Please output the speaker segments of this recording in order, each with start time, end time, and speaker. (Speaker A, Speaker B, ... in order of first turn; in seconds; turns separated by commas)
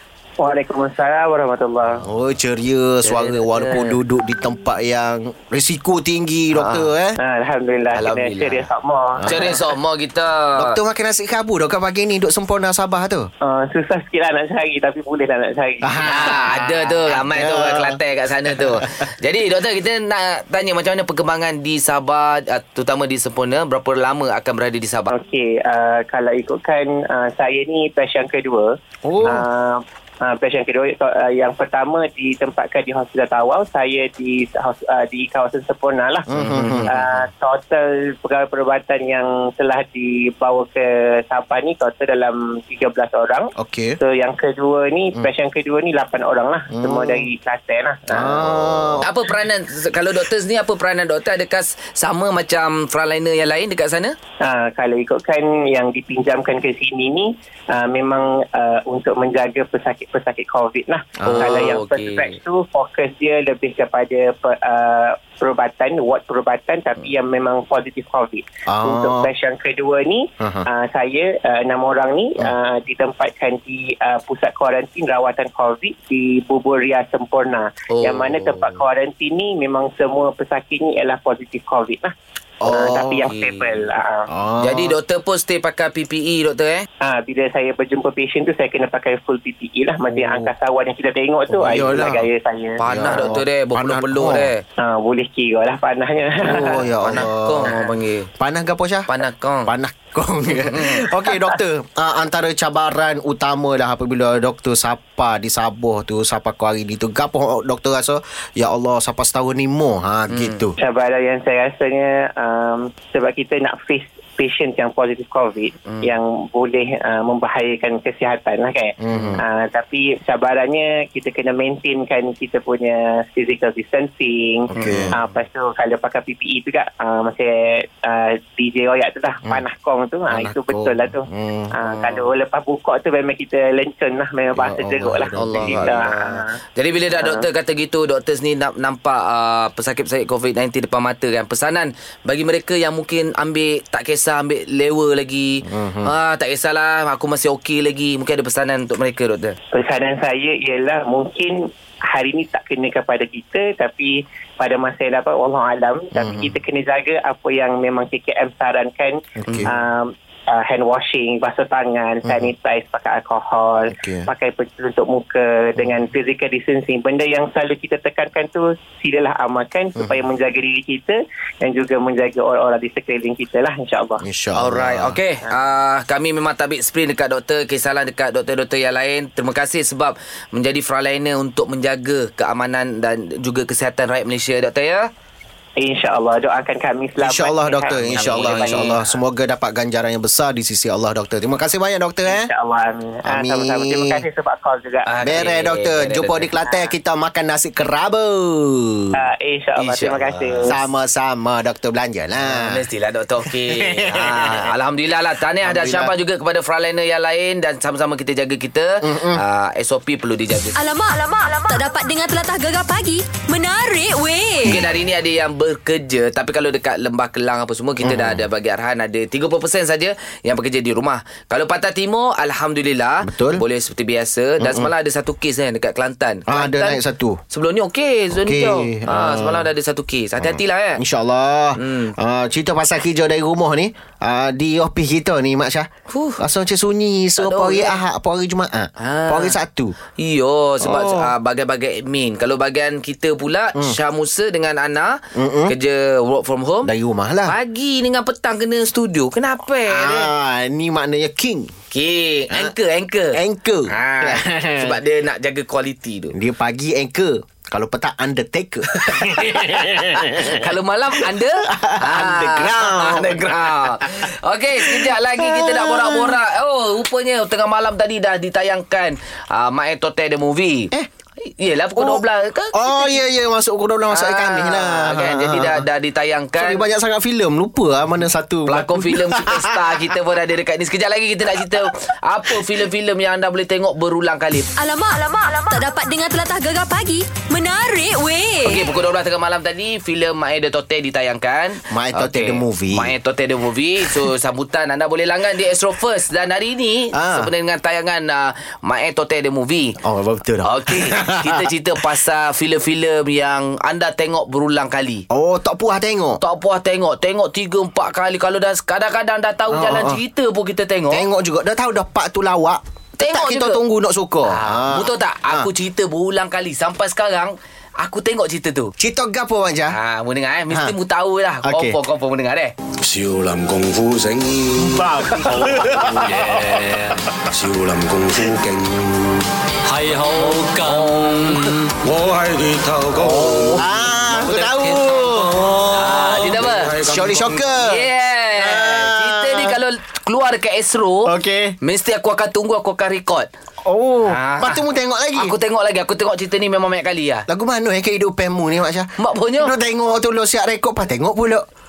Speaker A: 0.4-2.0, Speaker B: 2.0-7.2, Speaker C: 3.0-4.0, Speaker C: 6.5-6.9, Speaker A: 7.2-9.6, Speaker C: 7.9-8.7, Speaker B: 9.2-9.6, Speaker C: 9.3-10.8, Speaker B: 10.6-13.3, Speaker A: 13.4-16.4, Speaker B: 15.8-18.9, Speaker C: 16.1-25.1, Speaker A: 25.1-36.3, Speaker B: 29.0-29.5, Speaker B: 36.3-37.2, Speaker C: 36.4-37.0, Speaker A: 36.9-49.0, Speaker B: 43.6-44.0, Speaker B: 46.7-47.3, Speaker B: 48.1-49.1, Speaker C: 49.0-54.1, Speaker A: 54.4-82.1, Speaker B: 61.2-61.8, Speaker C: 61.3-62.4, Speaker B: 68.7-69.3, Speaker B: 70.4-70.7, Speaker C: 77.9-78.8, Speaker B: 82.6-83.3, Speaker A: 82.6-84.3, Speaker C: 83.3-83.9, Speaker B: 84.3-85.0, Speaker C: 84.6-86.9, Speaker A: 87.0-93.2, Speaker C: 90.1-90.5, Speaker B: 91.5-92.3, Speaker C: 92.8-94.6, Speaker B: 92.9-94.5, Speaker A: 94.8-97.8, Speaker C: 96.4-98.3, Speaker B: 96.5-97.7, Speaker B: 98.4-99.1, Speaker C: 99.1-99.7, Speaker B: 99.7-110.8, Speaker C: 100.5-101.1, Speaker C: 110.3-110.7, Speaker A: 110.8-136.5, Speaker C: 115.9-116.1, Speaker B: 119.0-119.4, Speaker C: 124.7-125.1, Speaker B: 124.7-125.2, Speaker B: 130.3-131.7, Speaker C: 131.8-132.2, Speaker B: 134.5-136.1, Speaker C: 135.4-149.6, Speaker A: 137.2-137.4, Speaker B: 145.7-146.1, Speaker A: 149.7-174.2, Speaker B: 156.2-156.6, Speaker B: 159.4-159.8, Speaker B: 162.2-162.5, Speaker B: 163.9-164.3, Speaker B: 170.0-170.2, Speaker B: 174.2-175.2, Speaker C: 174.6-185.1, Speaker A: 185.8-189.2, Speaker B: 187.2-192.5, Speaker C: 188.0-189.0, Speaker A: 192.3-195.3, Speaker B: 193.2-194.2, Speaker C: 195.1-196.5, Speaker B: 195.2-199.2, Speaker A: 199.1-200.8, Speaker C: 199.8-200.7, Speaker B: 200.7-202.8, Speaker C: 202.4-210.8, Speaker B: 203.5-204.7, Speaker B: 205.6-206.1, Speaker B: 209.0-209.4, Speaker D: 210.8-214.8, Speaker C: 214.7-227.0, Speaker B: 218.0-218.4, Speaker B: 223.2-223.6, Speaker B: 224.6-224.9, Speaker B: 226.5-227.4, Speaker C: 227.5-231.0, Speaker B: 228.3-229.7, Speaker B: 230.4-239.9, Speaker C: 231.8-232.1, Speaker C: 236.1-236.4, Speaker C: 237.4-238.0, Speaker C: 239.0-239.6, Speaker C: 240.2-246.9, Speaker B: 240.8-241.3, Speaker B: 245.3-245.8, Speaker B: 246.8-247.6, Speaker C: 247.5-250.3, Speaker B: 249.9-251.7, Speaker C: 251.9-253.4, Speaker B: 253.3-255.0, Speaker C: 253.9-256.4, Speaker B: 256.3-264.3, Speaker C: 259.0-270.9, Speaker B: 264.8-266.4, Speaker C: 271.6-273.2, Speaker B: 272.0-275.8, Speaker C: 274.1-276.8, Speaker B: 276.6-280.0, Speaker C: 278.7-284.7, Speaker D: 284.8-288.8, Speaker C: 288.6-300.0, Speaker B: 291.9-293.1, Speaker B: 297.1-297.5, Speaker B: 300.0-301.7, Speaker C: 300.6-305.2, Speaker B: 305.3-306.4, Speaker C: 306.4-311.2, Speaker B: 309.7-310.2, Speaker B: 311.1-315.7, Speaker C: 313.2-313.8, Speaker C: 314.5-318.9, Speaker B: 319.0-320.0, Speaker C: 319.9-322.7, Speaker B: 321.6-322.0, Speaker E: 323.0-337.7, Speaker B: 324.8-326.8, Speaker C: 330.2-331.9, Speaker B: 333.2-336.1, Speaker C: 335.9-337.0, Speaker B: 337.0-339.8, Speaker C: 337.7-343.5, Speaker B: 341.2-341.8, Speaker B: 343.9-345.6, Speaker C: 344.3-344.8, Speaker C: 345.4-347.5, Speaker B: 347.5-351.7, Speaker C: 349.2-349.7